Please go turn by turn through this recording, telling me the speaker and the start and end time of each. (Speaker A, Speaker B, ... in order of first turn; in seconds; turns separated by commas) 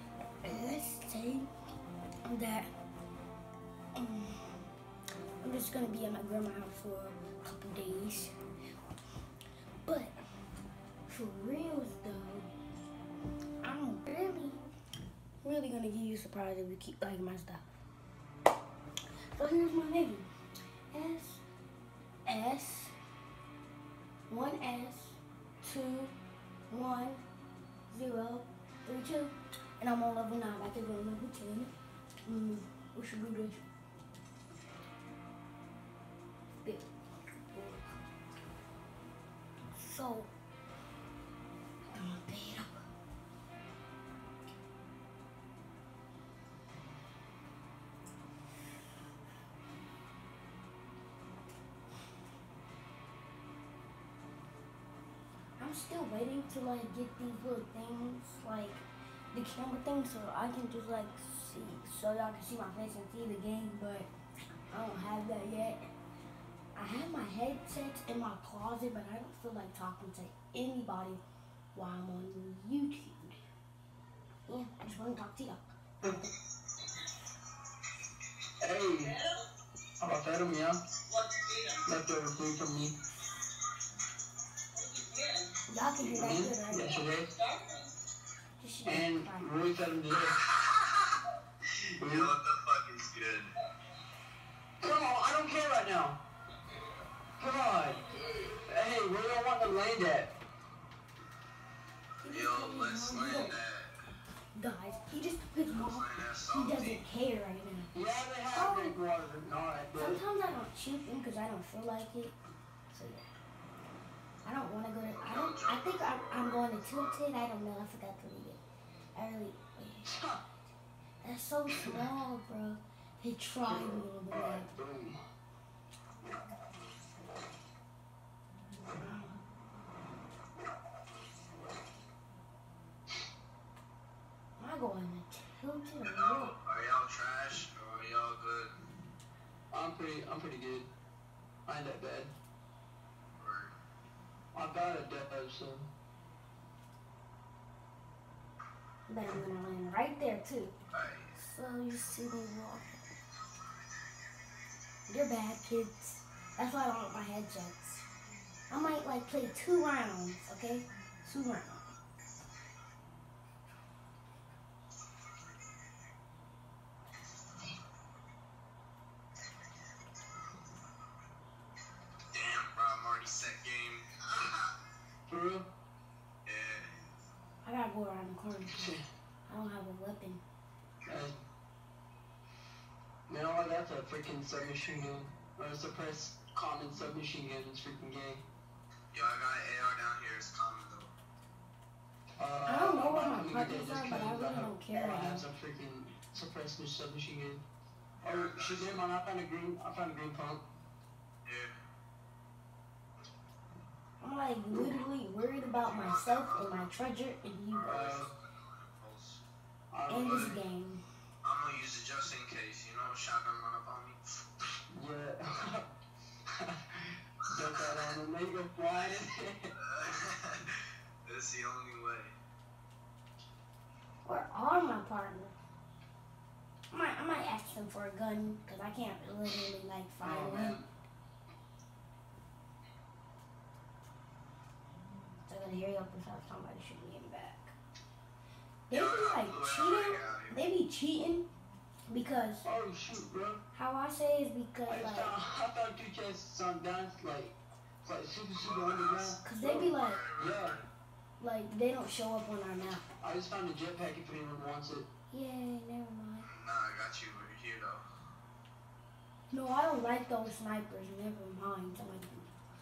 Speaker A: 0.4-1.5, Speaker A: 2.2-2.7, Speaker A: 4.0-4.5, Speaker A: 5.4-8.3, Speaker A: 9.8-10.1, Speaker A: 11.1-12.5, Speaker A: 13.6-14.6, Speaker A: 15.4-17.7, Speaker A: 19.3-20.3, Speaker A: 20.9-21.4, Speaker A: 22.3-22.9, Speaker A: 24.3-26.1, Speaker A: 26.7-27.2, Speaker A: 27.9-31.7, Speaker A: 32.3-33.6, Speaker A: 36.6-38.0, Speaker A: 39.7-40.3, Speaker A: 41.9-42.9, Speaker A: 55.6-64.1, Speaker A: 64.7-65.8, Speaker A: 66.8-71.2, Speaker A: 71.7-73.4, Speaker A: 74.5-76.1, Speaker B: 78.6-79.2, Speaker B: 80.0-80.8, Speaker B: 81.8-83.0, Speaker A: 85.7-86.9, Speaker B: 86.0-87.3, Speaker A: 88.6-89.5, Speaker B: 88.9-90.4, Speaker C: 90.2-91.2, Speaker B: 92.0-92.3, Speaker C: 92.0-93.5, Speaker B: 94.8-96.2, Speaker B: 97.4-100.3, Speaker A: 102.2-103.6, Speaker C: 102.2-103.9, Speaker A: 104.6-107.9, Speaker C: 105.7-107.0, Speaker B: 107.9-110.2, Speaker A: 108.5-109.0, Speaker A: 110.0-112.3, Speaker A: 112.9-113.2, Speaker A: 114.5-118.6, Speaker C: 115.1-117.2, Speaker A: 119.1-120.1, Speaker B: 120.0-120.4, Speaker A: 121.2-124.7, Speaker B: 121.7-122.0, Speaker B: 123.7-125.2, Speaker A: 134.6-136.5, Speaker C: 136.0-138.7, Speaker B: 139.7-140.9, Speaker B: 141.7-142.3, Speaker C: 143.4-143.7, Speaker B: 144.5-145.9, Speaker A: 149.1-150.7, Speaker C: 150.9-151.3, Speaker A: 151.3-153.0, Speaker A: 155.1-158.1, Speaker A: 158.7-161.9, Speaker C: 172.3-174.7, Speaker B: 175.3-175.7, Speaker C: 176.4-176.9, Speaker A: 177.6-178.9, Speaker B: 178.7-179.0, Speaker A: 179.5-180.4, Speaker B: 181.1-181.3, Speaker B: 183.3-188.4, Speaker C: 189.1-191.1, Speaker B: 192.4-197.6, Speaker A: 192.7-195.4, Speaker C: 198.2-199.1, Speaker B: 198.2-200.6, Speaker C: 201.4-201.7, Speaker A: 204.2-208.1, Speaker C: 205.6-206.9, Speaker C: 207.7-209.4, Speaker B: 207.8-208.3, Speaker B: 209.9-210.6, Speaker A: 210.1-211.0, Speaker C: 210.1-210.5, Speaker C: 211.4-214.2, Speaker B: 214.9-215.9, Speaker B: 216.5-219.7, Speaker C: 217.6-218.1, Speaker C: 219.8-222.3, Speaker A: 224.2-225.5, Speaker A: 226.9-230.8, Speaker B: 230.2-230.9, Speaker A: 235.5-237.8, Speaker A: 238.9-241.5, Speaker C: 238.9-240.7, Speaker A: 242.1-242.7, Speaker B: 242.6-243.6, Speaker A: 243.7-245.3, Speaker B: 244.9-250.8, Speaker C: 248.6-250.9, Speaker A: 249.4-250.2, Speaker A: 251.4-253.0, Speaker B: 253.2-255.1, Speaker A: 255.3-256.5, Speaker C: 256.4-258.0, Speaker A: 259.5-262.5